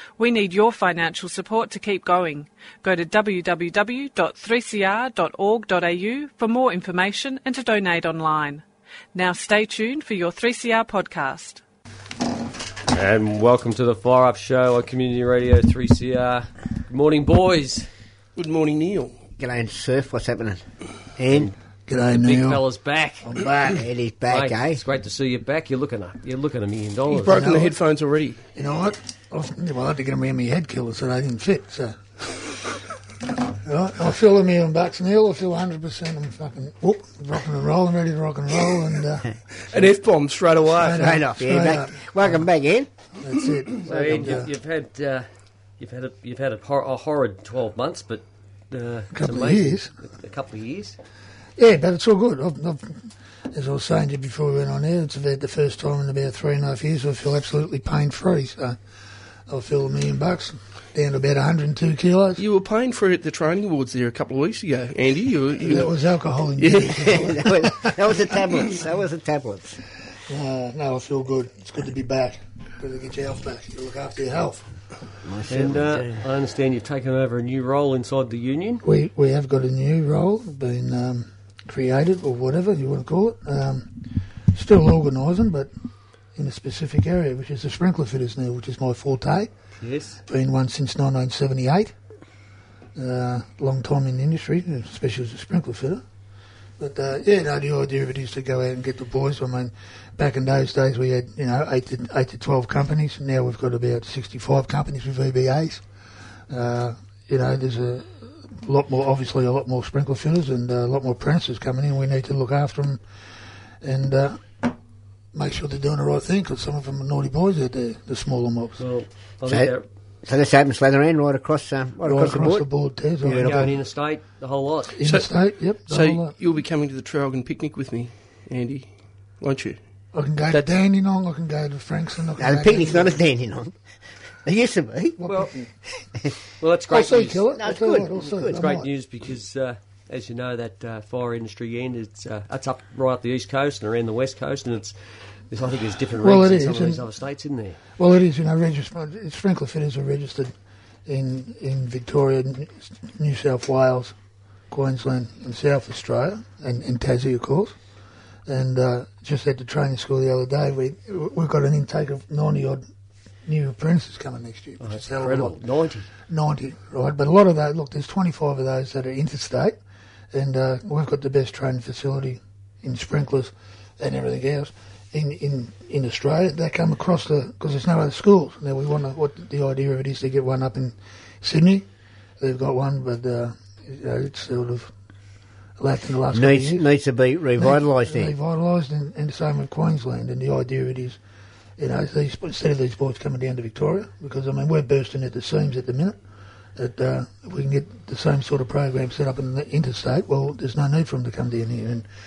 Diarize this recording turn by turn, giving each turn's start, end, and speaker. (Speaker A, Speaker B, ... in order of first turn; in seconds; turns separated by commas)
Speaker A: 0.2-8.6, Speaker A: 9.1-11.6, Speaker B: 12.9-17.9, Speaker C: 18.4-19.1, Speaker D: 19.4-20.6, Speaker D: 21.2-21.5, Speaker B: 21.3-23.3, Speaker E: 21.9-22.6, Speaker E: 23.2-23.9, Speaker D: 23.7-24.8, Speaker B: 24.3-27.6, Speaker C: 27.1-28.4, Speaker E: 27.3-27.7, Speaker E: 28.6-32.6, Speaker E: 33.5-39.8, Speaker C: 39.7-41.2, Speaker E: 40.8-42.4, Speaker D: 40.9-42.9, Speaker E: 43.2-44.5, Speaker B: 43.8-45.3, Speaker B: 45.8-51.0, Speaker E: 49.1-49.9, Speaker E: 51.6-58.8, Speaker E: 59.5-62.4, Speaker C: 62.4-66.0, Speaker E: 65.6-68.1, Speaker C: 66.6-67.2, Speaker D: 66.9-69.8, Speaker E: 70.3-74.7, Speaker D: 75.2-76.2, Speaker B: 75.5-78.8, Speaker E: 78.8-83.9, Speaker E: 84.5-85.7, Speaker E: 86.3-89.5, Speaker B: 89.8-90.2, Speaker E: 90.3-91.9, Speaker E: 93.0-96.0, Speaker E: 96.8-105.8, Speaker E: 106.5-113.0, Speaker E: 113.8-114.7, Speaker E: 115.3-118.8, Speaker B: 118.8-119.9, Speaker D: 119.5-119.7, Speaker D: 120.2-122.7, Speaker E: 122.0-123.8, Speaker D: 123.2-123.7, Speaker B: 123.4-125.0, Speaker E: 125.0-126.3, Speaker C: 125.0-125.3, Speaker C: 125.9-128.9, Speaker C: 129.4-129.8, Speaker E: 130.1-133.2, Speaker C: 130.5-130.8, Speaker D: 132.4-133.8, Speaker D: 134.4-135.2, Speaker E: 135.2-135.7, Speaker B: 135.2-135.5, Speaker B: 136.6-137.5, Speaker E: 136.9-138.9, Speaker D: 137.5-138.7, Speaker B: 138.4-144.9, Speaker B: 145.5-147.8, Speaker E: 146.2-147.0, Speaker E: 148.0-150.5, Speaker E: 151.1-154.1, Speaker E: 154.7-157.8, Speaker E: 158.5-162.8, Speaker E: 163.5-165.6, Speaker B: 164.8-166.1, Speaker E: 166.3-169.8, Speaker E: 170.3-181.9, Speaker E: 182.4-184.9, Speaker E: 185.8-186.9, Speaker D: 186.3-188.3, Speaker E: 187.6-191.2, Speaker E: 191.8-196.2, Speaker E: 196.8-202.1